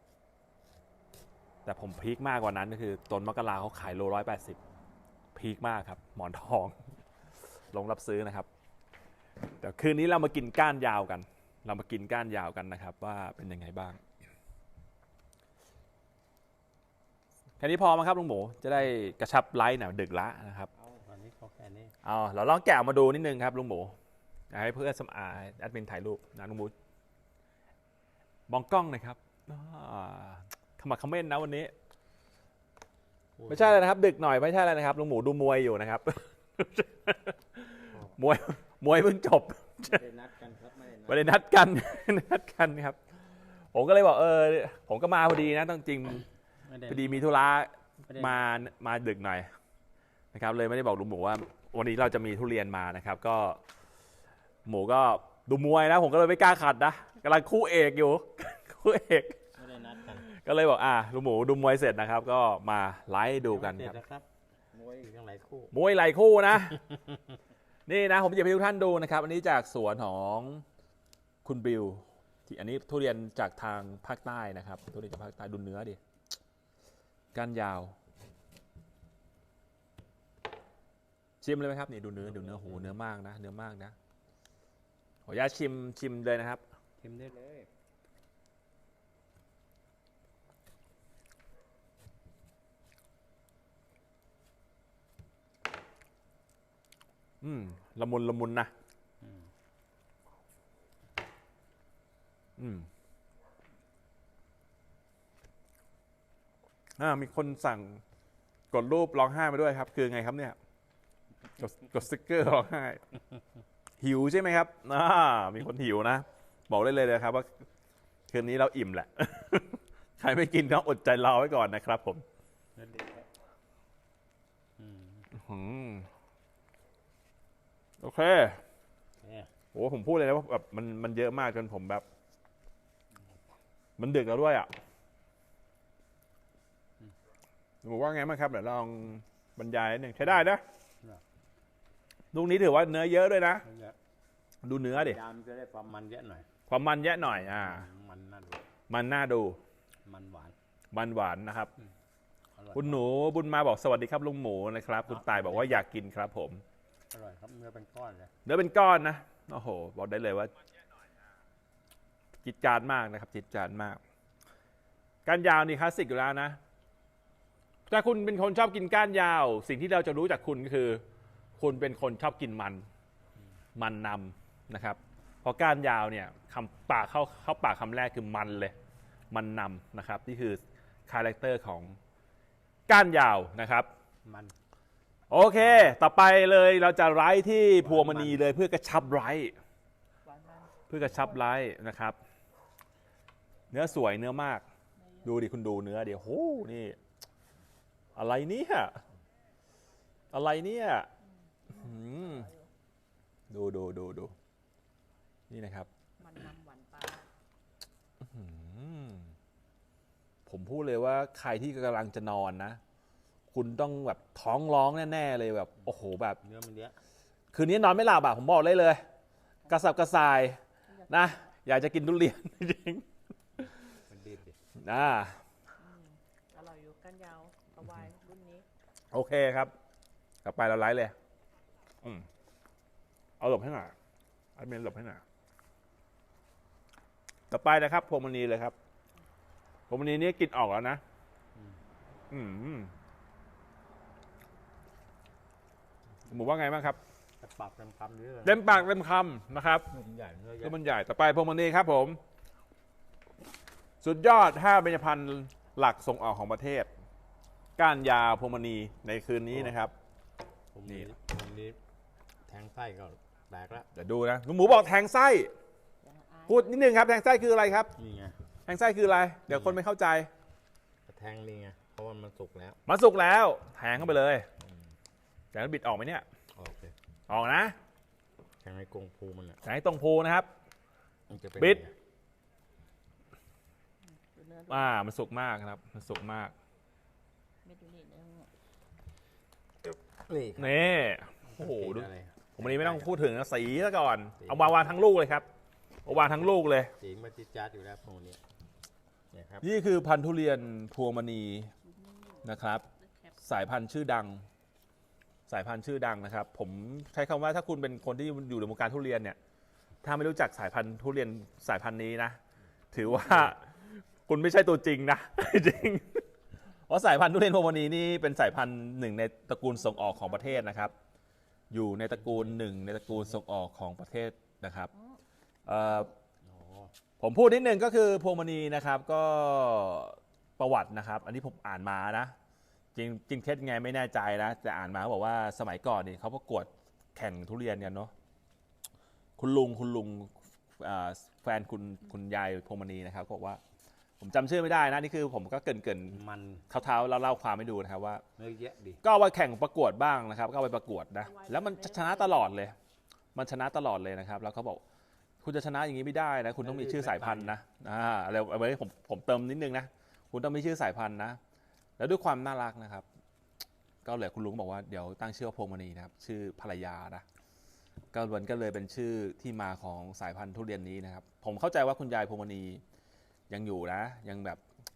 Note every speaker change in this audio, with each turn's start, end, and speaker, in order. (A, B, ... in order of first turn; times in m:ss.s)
0:01.6-0:04.6 A
0:05.3-0:06.9 A
0:07.7-0:08.5 A
0:09.6-0:14.0 A
0:17.6-0:20.7 A
0:20.7-0:21.9 B
0:22.0-0:24.0 A
0:24.5-0:26.7 A
0:28.5-0:31.7 A
0:33.4-0:33.8 B
0:33.5-0:40.0 A
0:39.8-0:41.3 B
0:41.0-0:43.0 A
0:43.7-0:46.2 A
0:46.6-0:47.2 B
0:46.9-0:49.5 A
0:48.0-0:48.5 B
0:50.3-0:53.6 A
0:54.6-0:59.4 A
0:59.6-1:00.3 B
1:00.1-1:04.0 A
1:03.5-1:05.7 B
1:05.7-1:06.8 A
1:07.9-1:10.6 A
1:11.4-1:16.0 A
1:17.3-1:18.0 A
1:21.4-1:23.9 A
1:22.2-1:23.0 B
1:25.2-1:26.6 A
1:27.0-1:27.7 B
1:37.4-1:38.7 A
1:39.2-1:39.5 B
1:42.6-1:42.9 A
1:47.0-1:48.0 A
1:48.7-1:50.6 A
1:51.6-1:53.0 A
1:54.0-1:57.5 A
1:58.3-2:02.2 A
2:02.8-2:03.3 B
2:04.8-2:05.3 B
2:05.3-2:06.1 A
2:08.0-2:08.6 A
2:09.2-2:09.5 B
2:09.7-2:12.0 A
2:14.0-2:14.7 A
2:17.8-2:20.6 A
2:22.3-2:23.6 A
2:23.6-2:24.0 B
2:24.6-2:25.2 A
2:24.9-2:26.5 B
2:26.7-2:27.9 A
2:27.3-2:28.7 B
2:28.9-2:29.6 A
2:30.0-2:30.5 B
2:30.9-2:31.7 A
2:32.6-2:33.0 B
2:32.7-2:36.6 A
2:35.0-2:35.8 B
2:37.1-2:38.3 B
2:38.4-2:40.5 A
2:42.4-2:44.0 A
2:45.2-2:46.6 A
2:47.9-2:51.0 A
2:51.6-2:52.8 A
2:53.8-2:58.7 A
2:59.3-3:02.0 A
3:02.9-3:03.9 A
3:04.2-3:04.5 B
3:05.3-3:09.6 A
3:05.6-3:06.0 B
3:07.8-3:08.4 B
3:10.2-3:11.2 C
3:10.9-3:12.2 A
3:13.7-3:14.6 A
3:15.2-3:17.0 A
3:18.2-3:19.0 A
3:20.3-3:21.1 A
3:21.7-3:22.7 C
3:21.7-3:22.5 A
3:23.5-3:24.3 A
3:25.5-3:25.9 A
3:26.2-3:27.2 C
3:28.2-3:29.3 A
3:30.4-3:32.8 A
3:33.5-3:36.4 A
3:36.4-3:37.0 B
3:37.5-3:39.0 A
3:39.7-3:43.1 A
3:40.9-3:41.3 C
3:44.1-3:44.6 B
3:44.8-3:45.4 A
3:45.8-3:48.6 C
3:49.1-3:49.7 A
3:50.4-3:51.1 A
3:52.0-3:52.3 A
3:53.4-3:53.9 A
3:54.6-3:55.2 A
3:57.5-3:58.7 A
3:59.9-4:01.0 A
4:01.5-4:01.8 B
4:02.3-4:02.9 A
4:06.3-4:07.0 A
4:07.4-4:08.9 B
4:08.4-4:09.9 A
4:09.9-4:10.8 B
4:10.6-4:12.2 A
4:14.0-4:16.9 A
4:17.8-4:19.9 A
4:20.7-4:21.8 B
4:22.5-4:23.9 B
4:23.9-4:25.5 A
4:26.0-4:26.7 C
4:26.5-4:27.9 A
4:28.0-4:28.4 B
4:28.6-4:30.3 A
4:29.5-4:29.8 B
4:31.1-4:32.8 B
4:32.9-4:34.5 A
4:34.6-4:34.9 B
4:35.5-4:36.2 A
4:36.6-4:36.9 B
4:37.3-4:37.8 A
4:38.6-4:39.6 B
4:39.6-4:40.5 A
4:41.3-4:41.9 B
4:44.1-4:45.0 C
4:44.7-4:46.5 A
4:47.6-4:48.5 C
4:49.8-4:50.8 B
4:50.6-4:55.4 A
4:51.4-4:53.1 B
4:54.4-4:54.8 B
4:56.0-4:56.9 A
4:57.0-4:58.4 B
4:59.3-4:59.6 B
4:59.6-5:01.7 A
5:02.0-5:02.4 C
5:02.4-5:04.4 A
5:05.5-5:09.4 A
5:10.0-5:12.4 A
5:12.9-5:16.3 A
5:13.1-5:13.5 B
5:16.9-5:20.9 A
5:21.7-5:24.9 A
5:22.2-5:22.6 B
5:25.6-5:26.1 A
5:26.4-5:26.9 B
5:27.2-5:32.3 A
5:32.9-5:38.1 A
5:39.4-5:43.6 A
5:44.2-5:48.2 A
5:46.1-5:46.6 B
5:48.4-5:49.0 B
5:49.0-5:52.8 A
5:51.3-5:52.5 C
5:53.3-5:54.8 A
5:55.4-6:01.4 A
5:56.6-5:57.6 B
6:02.0-6:03.0 A
6:04.0-6:07.2 A
6:08.1-6:12.8 A
6:13.5-6:14.6 A